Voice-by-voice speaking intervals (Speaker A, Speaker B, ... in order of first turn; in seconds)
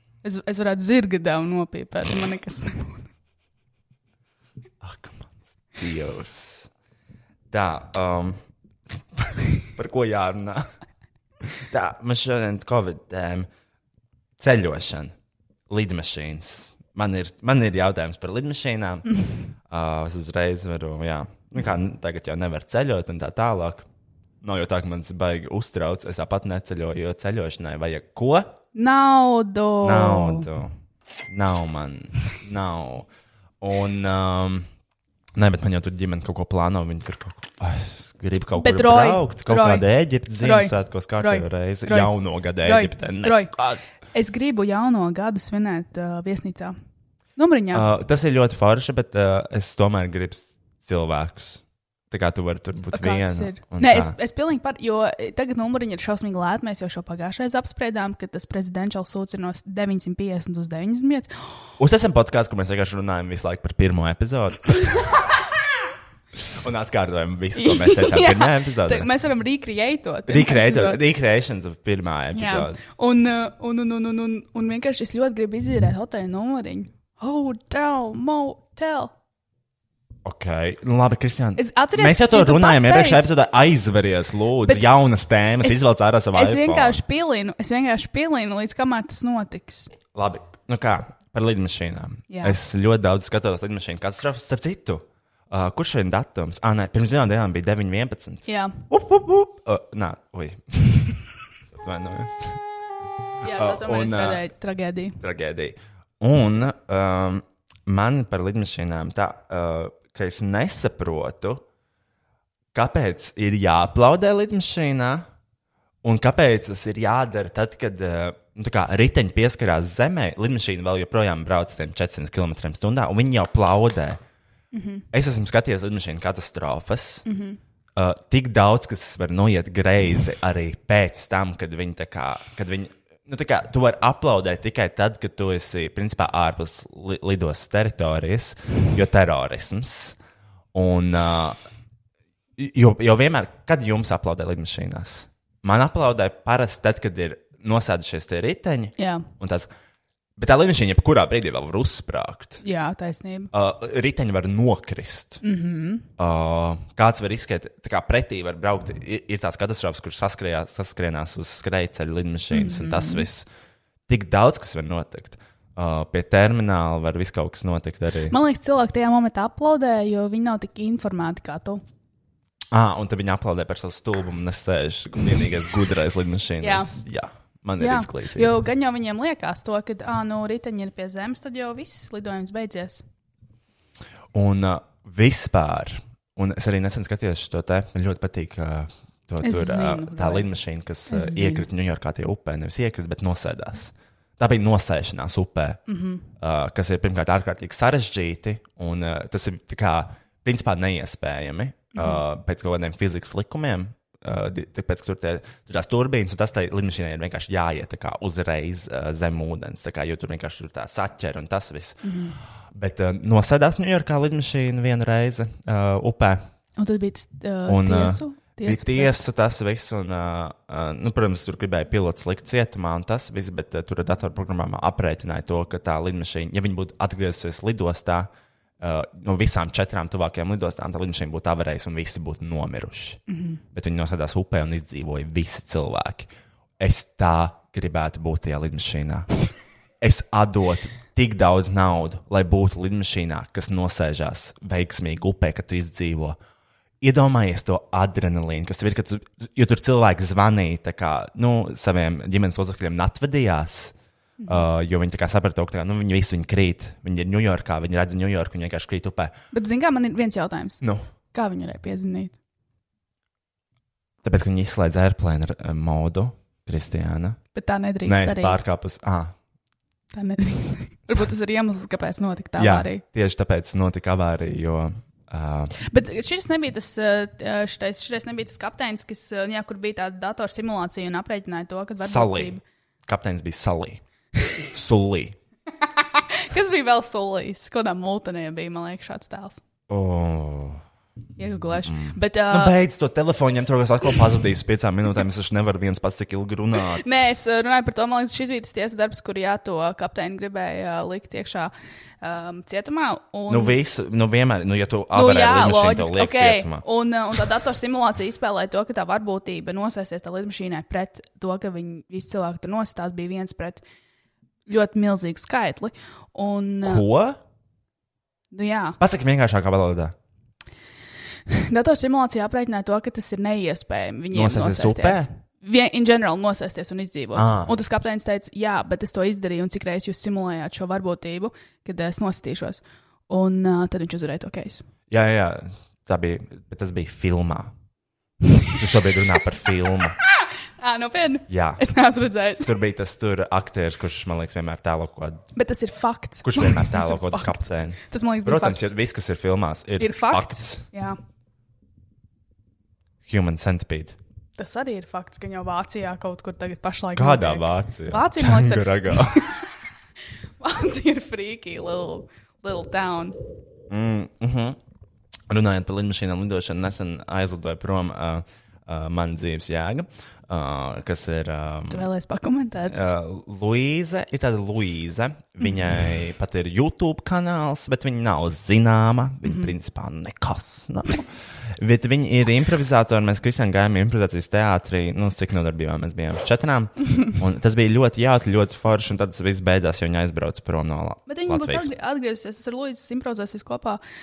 Speaker A: 0.2-3.1, 28.8-30.5, 38.6-39.9, 40.4-43.5, 44.1-46.8, 47.4-47.9, 52.9-61.3, 67.6-71.0, 72.3-79.1, 81.6-83.3, 86.3-89.9, 92.3-92.6, 98.5-98.8, 103.4-105.2, 124.7-125.0, 127.2-127.6, 149.0-149.3, 152.6-153.5, 155.4-156.1, 162.5-163.3, 168.3-171.8, 176.6-176.9, 177.8-183.0, 189.4-190.5, 191.1-191.7, 195.9-196.3, 201.9-202.2, 212.0-212.4, 216.8-219.2, 233.3-233.6, 254.4-254.7, 259.5-260.8, 261.3-262.3, 267.5-268.6, 270.1-273.0, 275.8-282.6, 285.9-289.6, 291.4-292.8, 296.9-303.8, 305.1-313.8, 314.7-317.0, 318.5-319.0, 321.5-334.8, 340.8-342.7, 345.6-348.9, 350.0-351.2, 354.6-359.6, 360.6-363.3, 371.9-373.0, 379.4-379.7, 391.3-394.0
Speaker B: 4.8-6.7, 7.5-8.4, 8.9-10.7, 11.4-13.5, 14.4-15.1, 15.7-19.1, 19.7-23.9, 24.4-28.5, 29.8-30.7, 31.3-33.1, 33.6-34.7, 35.4-43.8, 47.7-54.1, 61.8-65.0, 66.4-69.1, 70.3-72.8, 80.2-87.0, 90.1-102.6, 103.4-104.4, 105.2-111.6, 112.7-115.3, 116.0-124.2, 125.1-127.2, 128.0-140.2, 140.7-141.6, 142.6-149.7, 150.4-152.6, 153.5-155.4, 156.2-163.5, 164.1-168.3, 172.7-178.5, 184.3-195.8, 196.4-212.0, 212.7-216.4, 217.7-233.2, 233.7-239.3, 240.0-246.4, 247.0-253.9, 254.5-259.3, 264.2-267.4, 268.0-269.3, 272.6-275.7, 282.0-284.0, 284.6-285.4, 289.9-290.8, 291.8-297.2, 303.5-306.8, 316.8-317.4, 319.0-320.1, 324.3-325.3, 327.3-327.8, 335.1-337.7, 338.8-340.2, 341.5-341.8, 342.6-345.5, 346.4-350.8, 353.2-354.2, 357.1-359.4, 363.9-364.8, 365.5-372.1, 372.9-391.9